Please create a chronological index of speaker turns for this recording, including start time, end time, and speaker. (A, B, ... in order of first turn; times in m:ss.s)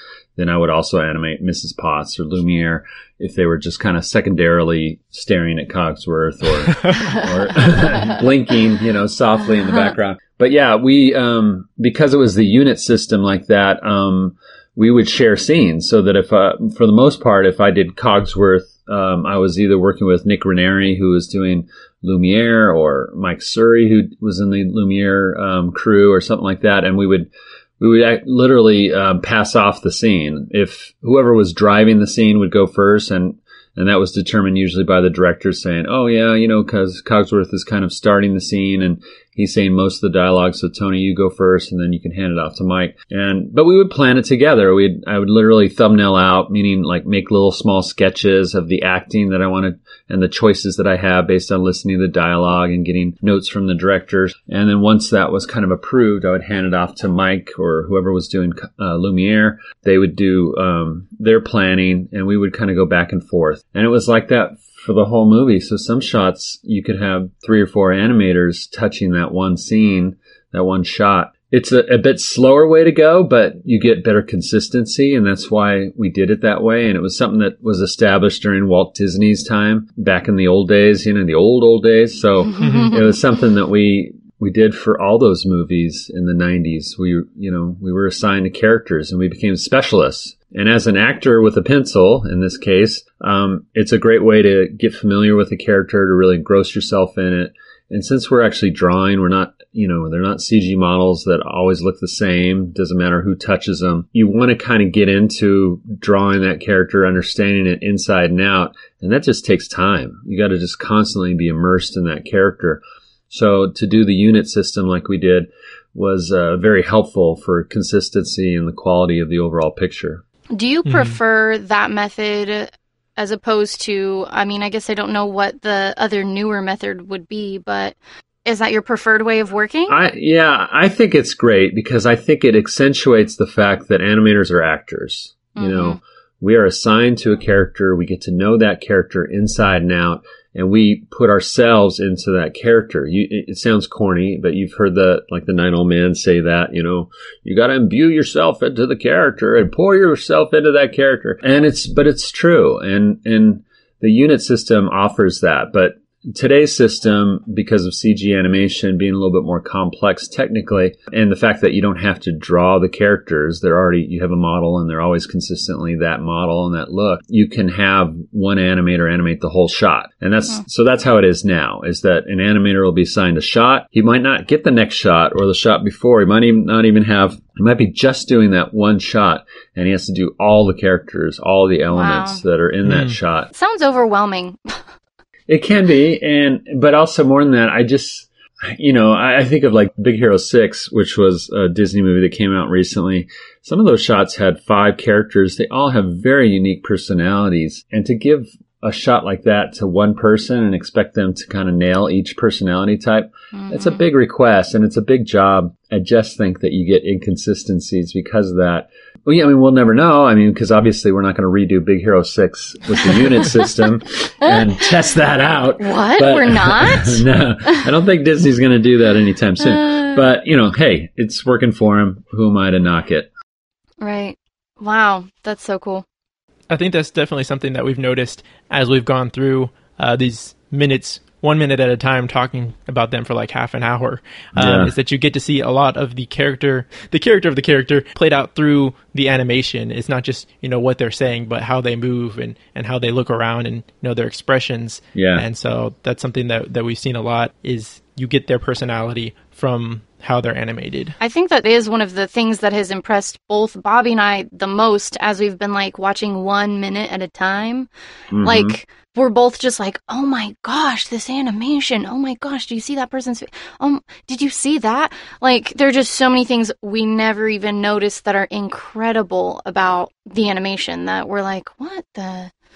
0:00.4-2:00.2 A
1:22.6-1:22.9 B
2:00.5-2:10.0 C
2:00.8-2:01.2 B
2:09.9-3:03.5 A
2:15.6-2:16.0 C
3:01.9-3:02.4 C
3:02.8-3:03.1 B
3:03.5-3:04.8 C
3:05.5-3:43.3 A
3:23.5-3:24.0 C
3:35.8-3:37.2 C
3:44.0-3:46.0 C
3:46.7-4:11.2 B
3:54.6-3:54.9 A
4:05.1-4:05.4 A
4:11.2-4:17.9 C
4:18.3-4:18.7 A
4:18.4-4:32.5 C